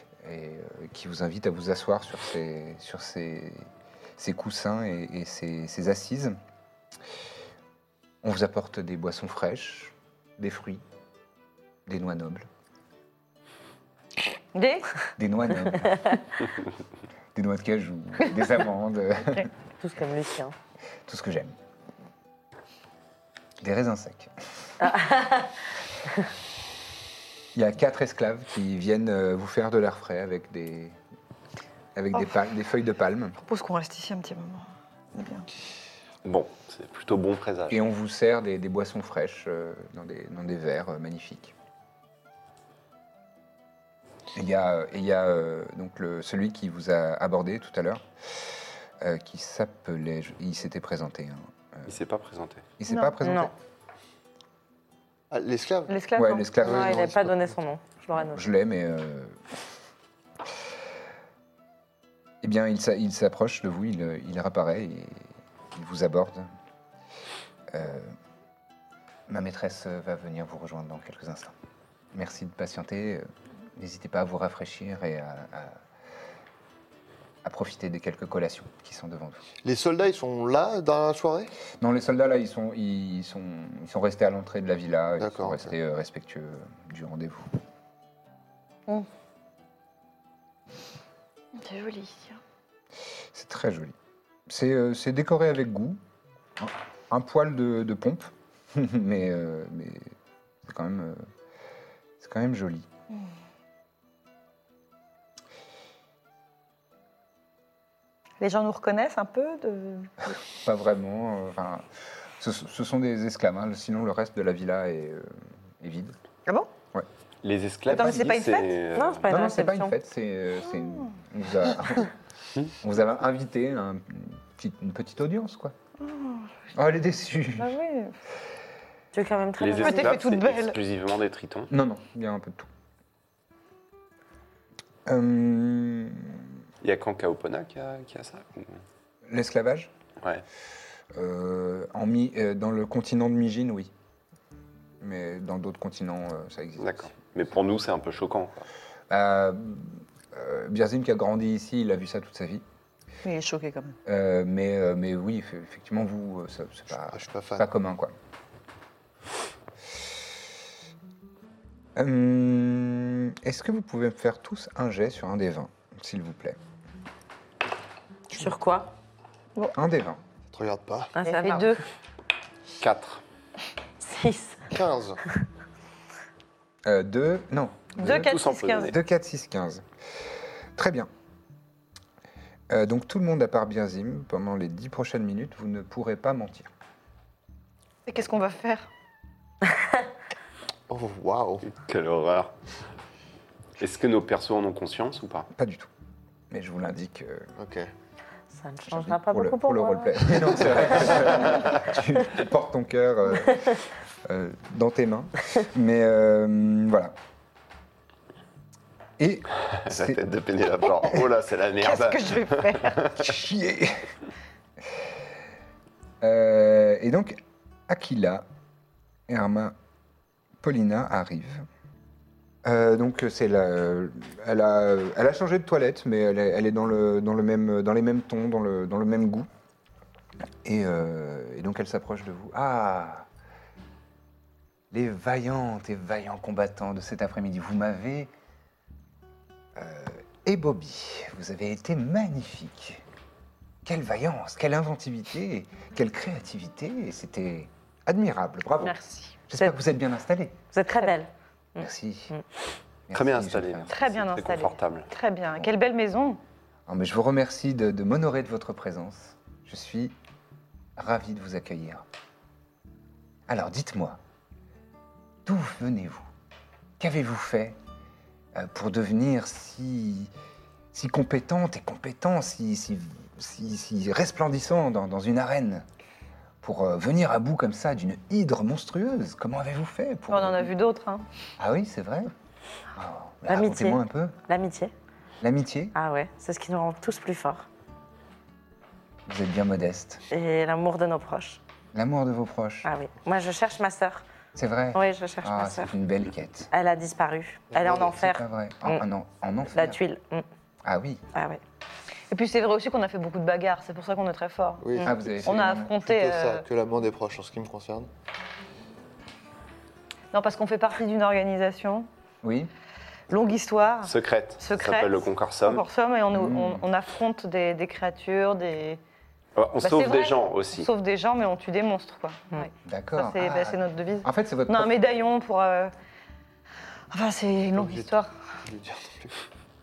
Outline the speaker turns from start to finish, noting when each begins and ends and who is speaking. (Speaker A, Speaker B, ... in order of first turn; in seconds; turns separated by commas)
Speaker A: 0.2-6.4, Speaker A: 8.2-10.8, Speaker A: 11.9-12.5, Speaker B: 14.5-14.9, Speaker A: 15.2-16.2, Speaker A: 17.3-19.5, Speaker C: 19.8-20.6, Speaker A: 21.1-21.6, Speaker A: 23.6-24.3, Speaker C: 24.8-25.5, Speaker A: 27.5-31.0, Speaker A: 31.9-33.4, Speaker B: 33.4-35.5, Speaker D: 36.2-37.8, Speaker A: 37.7-41.5, Speaker A: 44.3-51.9, Speaker D: 51.9-52.7, Speaker A: 52.8-53.5, Speaker B: 52.9-53.2, Speaker C: 53.2-53.5, Speaker E: 55.3-56.0, Speaker B: 55.9-56.6, Speaker A: 56.1-57.3, Speaker E: 56.6-57.2, Speaker C: 56.6-58.5, Speaker A: 58.2-59.4, Speaker A: 62.4-66.5, Speaker A: 67.7-68.2, Speaker A: 69.3-71.5, Speaker A: 72.1-75.8, Speaker A: 77.4-79.5, Speaker E: 79.6-81.5, Speaker A: 81.8-87.6, Speaker E: 85.2-85.7, Speaker B: 91.5-92.4, Speaker A: 93.3-94.0, Speaker A: 94.5-96.0, Speaker A: 96.6-100.1, Speaker A: 100.7-101.3, Speaker A: 102.2-102.9, Speaker B: 108.4-110.3, Speaker A: 110.5-111.8, Speaker A: 112.4-116.2, Speaker D: 117.4-119.3, Speaker B: 117.9-118.8, Speaker A: 117.9-118.3, Speaker C: 119.0-120.0, Speaker A: 119.3-122.1, Speaker A: 122.8-125.8, Speaker B: 126.0-126.6, Speaker A: 126.7-127.7, Speaker B: 127.6-128.2, Speaker C: 129.1-130.2, Speaker D: 129.6-131.7, Speaker B: 129.8-130.8, Speaker A: 131.7-132.7, Speaker A: 135.1-136.5, Speaker D: 136.8-138.8, Speaker A: 139.3-139.9, Speaker A: 141.1-143.9, Speaker A: 145.0-147.1, Speaker D: 146.8-148.7, Speaker A: 149.1-152.6, Speaker B: 153.2-154.0, Speaker A: 154.1-158.1, Speaker E: 157.0-157.7, Speaker A: 162.0-166.6, Speaker C: 168.3-168.9, Speaker A: 169.8-170.2, Speaker E: 170.5-171.1, Speaker C: 171.2-171.7, Speaker B: 171.3-171.8, Speaker D: 172.8-173.2, Speaker C: 174.0-174.6, Speaker E: 174.7-175.2, Speaker A: 176.8-179.8, Speaker B: 178.0-178.9, Speaker D: 178.0-179.0, Speaker A: 180.8-181.1, Speaker A: 182.7-186.7, Speaker B: 188.1-188.9, Speaker E: 190.9-191.7, Speaker D: 191.7-192.5, Speaker D: 193.8-195.5, Speaker A: 195.6-195.9, Speaker A: 196.5-197.5, Speaker E: 197.6-197.9, Speaker C: 198.5-201.1, Speaker A: 198.9-207.1, Speaker A: 209.2-210.2, Speaker D: 209.8-213.3, Speaker B: 211.8-213.1, Speaker A: 213.2-214.1, Speaker A: 216.2-218.4, Speaker A: 219.3-219.8, Speaker A: 220.6-221.7, Speaker A: 222.6-229.5, Speaker A: 230.6-233.3, Speaker A: 234.9-238.3, Speaker A: 239.8-243.0, Speaker A: 243.8-249.0, Speaker B: 248.8-249.4, Speaker A: 249.5-250.6, Speaker C: 250.7-252.4, Speaker A: 251.8-252.3, Speaker A: 253.1-253.9, Speaker D: 253.1-255.1, Speaker B: 253.9-256.4, Speaker A: 256.9-260.1, Speaker A: 261.0-262.0, Speaker A: 263.5-264.2, Speaker A: 265.4-266.3, Speaker A: 267.0-267.8, Speaker A: 268.6-270.3, Speaker A: 270.9-275.9, Speaker A: 276.6-280.7, Speaker B: 280.3-281.2, Speaker A: 281.6-282.3, Speaker A: 282.9-284.4, Speaker C: 283.5-284.9, Speaker A: 285.4-285.9, Speaker C: 285.9-287.7, Speaker A: 289.3-290.2, Speaker C: 290.3-291.6, Speaker A: 291.9-292.9, Speaker C: 292.8-294.2, Speaker A: 294.6-296.7, Speaker C: 294.9-295.9, Speaker C: 296.7-299.1, Speaker E: 297.7-298.0, Speaker A: 297.8-300.0, Speaker C: 299.7-300.4, Speaker A: 300.8-301.2, Speaker C: 301.3-301.6, Speaker B: 302.3-304.9, Speaker E: 304.8-308.1, Speaker A: 305.0-305.9, Speaker B: 305.4-306.6, Speaker B: 310.3-312.1, Speaker A: 312.4-312.7, Speaker B: 313.3-319.0, Speaker D: 314.0-315.8, Speaker A: 316.3-316.9, Speaker D: 319.6-320.9, Speaker B: 319.8-325.9, Speaker A: 322.9-324.9, Speaker B: 327.1-328.3, Speaker E: 327.8-328.1, Speaker E: 328.6-329.3